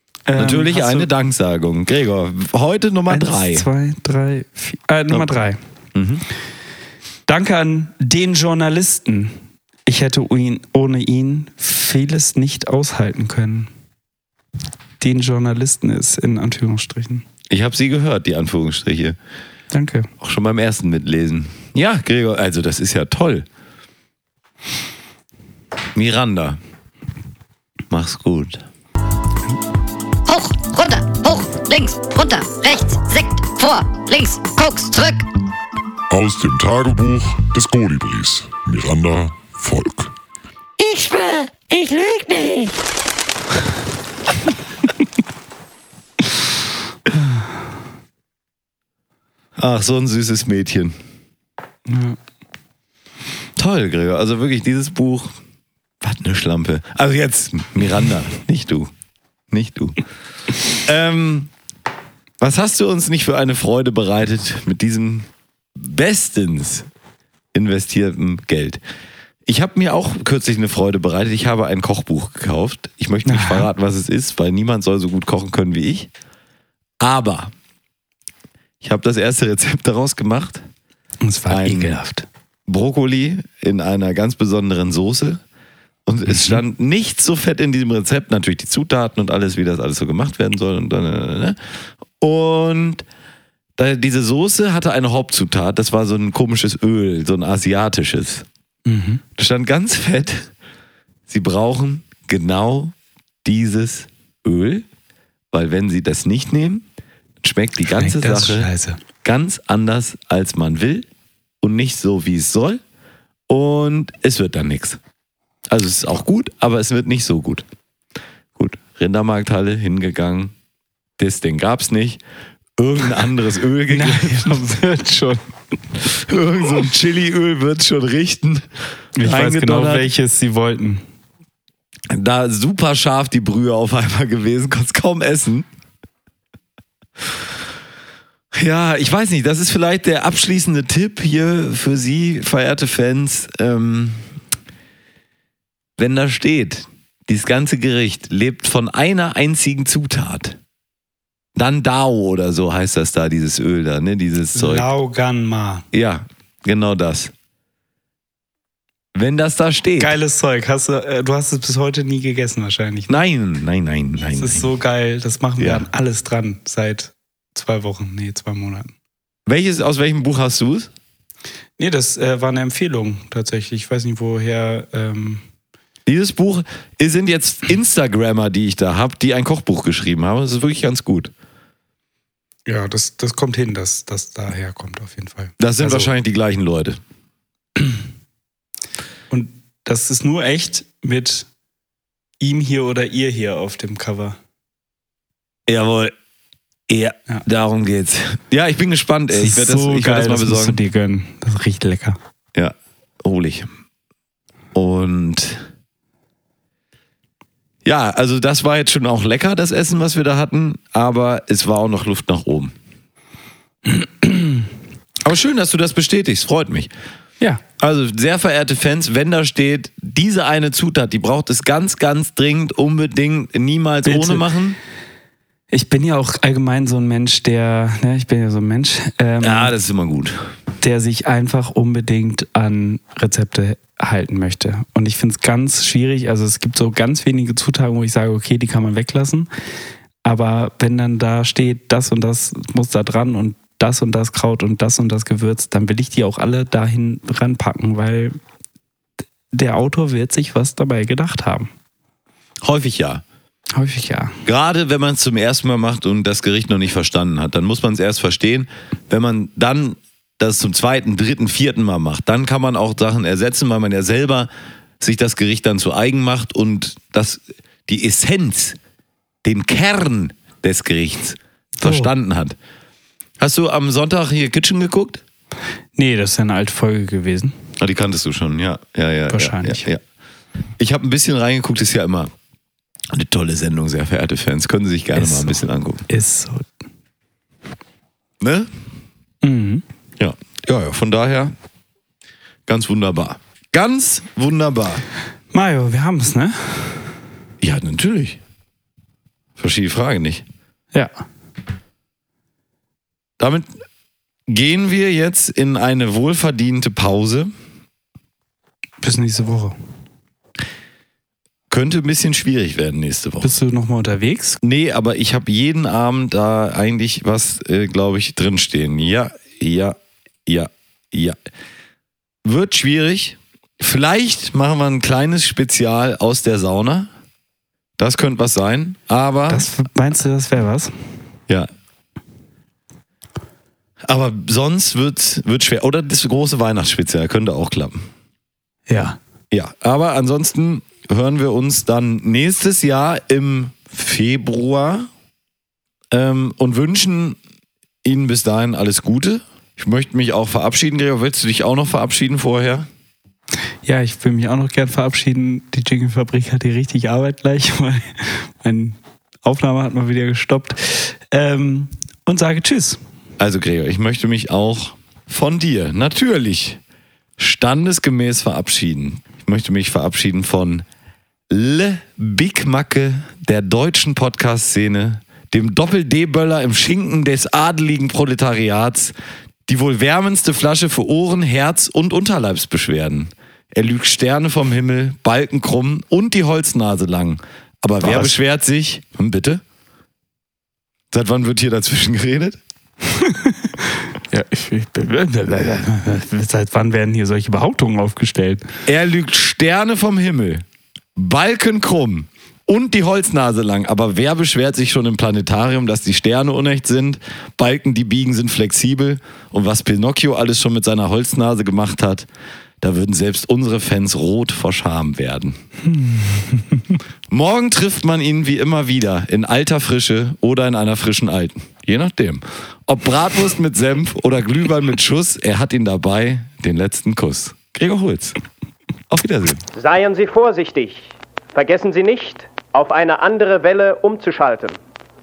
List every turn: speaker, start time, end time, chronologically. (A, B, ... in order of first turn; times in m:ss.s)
0:00.3-0:01.1 A
0:00.4-0:03.7 B
0:03.1-0:05.6 A
0:05.9-0:06.2 B
0:07.3-0:13.7 A
0:15.0-0:17.2 A
0:17.5-0:19.2 B
0:19.7-0:20.1 A
0:20.2-0:23.5 B
0:25.9-0:26.6 B
0:27.9-0:28.6 B
0:30.3-0:35.3 C
0:36.1-0:40.1 D
0:40.8-0:42.7 C
0:49.6-0:51.0 B
0:51.9-0:52.2 A
0:53.6-0:55.4 B
0:56.0-0:58.9 B
0:59.5-1:00.0 B
1:00.7-1:01.5 B
1:02.4-1:06.9 B
1:07.5-1:08.8 B
1:09.5-1:16.1 B
1:13.3-1:13.7 A
1:17.0-1:17.5 B
1:18.8-1:20.6 B
1:21.2-1:22.3 A
1:21.5-1:22.0 B
1:22.7-1:25.4 B
1:26.1-1:31.6 B
1:26.3-1:26.6 A
1:32.2-1:33.0 B
1:33.8-1:38.4 B
1:38.9-1:39.2 A
1:39.4-1:40.5 B
1:41.3-1:44.9 B
1:45.5-1:46.8 B
1:47.4-1:48.7 B
1:47.9-1:49.0 A
1:49.2-1:51.1 B
1:51.6-1:52.8 B
1:53.5-1:55.0 B
1:55.7-1:57.6 B
1:58.6-2:00.5 B
2:01.2-2:02.2 B
2:02.8-2:04.6 B
2:03.9-2:05.5 A
2:06.1-2:08.7 B
2:09.2-2:11.0 A
2:09.2-2:10.1 B
2:12.1-2:15.7 B
2:18.5-2:24.3 B
2:26.0-2:30.6 B
2:31.6-2:34.9 B
2:34.6-2:35.9 A
2:35.9-2:37.3 B
2:39.1-2:40.2 B
2:40.0-2:43.2 A
2:43.1-2:44.7 B
2:44.4-2:48.9 A
2:45.6-2:45.9 B
2:49.5-2:50.9 B
2:51.8-2:55.4 A
2:56.1-3:01.3 B
3:02.7-3:06.1 A
3:05.6-3:07.0 B
3:09.3-3:11.5 A
3:12.4-3:14.4 A
3:15.7-3:16.2 B
3:16.9-3:20.8 B
3:19.3-3:22.2 A
3:22.6-3:23.7 B
3:24.8-3:25.7 B
3:27.8-3:32.8 B
3:34.0-3:34.5 A
3:35.2-3:36.9 B
3:37.8-3:44.8 B
3:44.1-3:44.5 A
3:45.7-3:49.7 A
3:49.4-3:50.4 B
3:50.8-3:59.5 A
4:00.2-4:08.4 A
4:09.5-4:11.7 A
4:12.6-4:13.2 B
4:13.8-4:14.4 A
4:14.4-4:24.5 B
4:25.0-4:28.8 B
4:29.4-4:32.6 B
4:31.8-4:32.1 A
4:33.4-4:35.2 B
4:36.0-4:37.6 A
4:37.8-4:40.0 B
4:39.3-4:39.9 A
4:40.8-4:42.3 B
4:43.1-4:46.0 B
4:45.2-4:46.7 A
4:48.4-4:48.7 B
4:49.4-4:49.8 A
4:50.2-4:51.6 B
4:52.7-4:55.0 B
4:55.5-4:57.2 A
4:57.6-4:58.4 B
4:59.6-5:00.4 B
5:03.4-5:03.7 B
5:04.5-5:07.5 B
5:09.0-5:09.8 A
5:11.7-5:13.5 B
5:13.4-5:14.6 A
5:14.6-5:21.4 B
5:22.4-5:27.1 B
5:28.0-5:29.7 B
5:29.5-5:30.9 A
5:34.0-5:38.1 B
5:38.9-5:39.2 A
5:39.5-5:45.1 B
5:46.1-5:47.4 B
5:48.0-5:52.9 B
5:53.8-6:03.0 A
6:03.4-6:06.8 B
6:07.4-6:10.8 B
6:11.5-6:19.1 B
6:19.7-6:29.6 B
6:28.0-6:28.3 A
6:31.1-6:32.6 B
6:33.2-6:33.7 A
6:34.3-6:38.6 A
6:38.9-6:40.6 B
6:41.2-6:52.3 B
6:52.8-6:55.6 B
6:55.9-6:57.0 A
6:57.3-7:08.4 B
7:09.1-7:09.6 B
7:09.8-7:14.8 E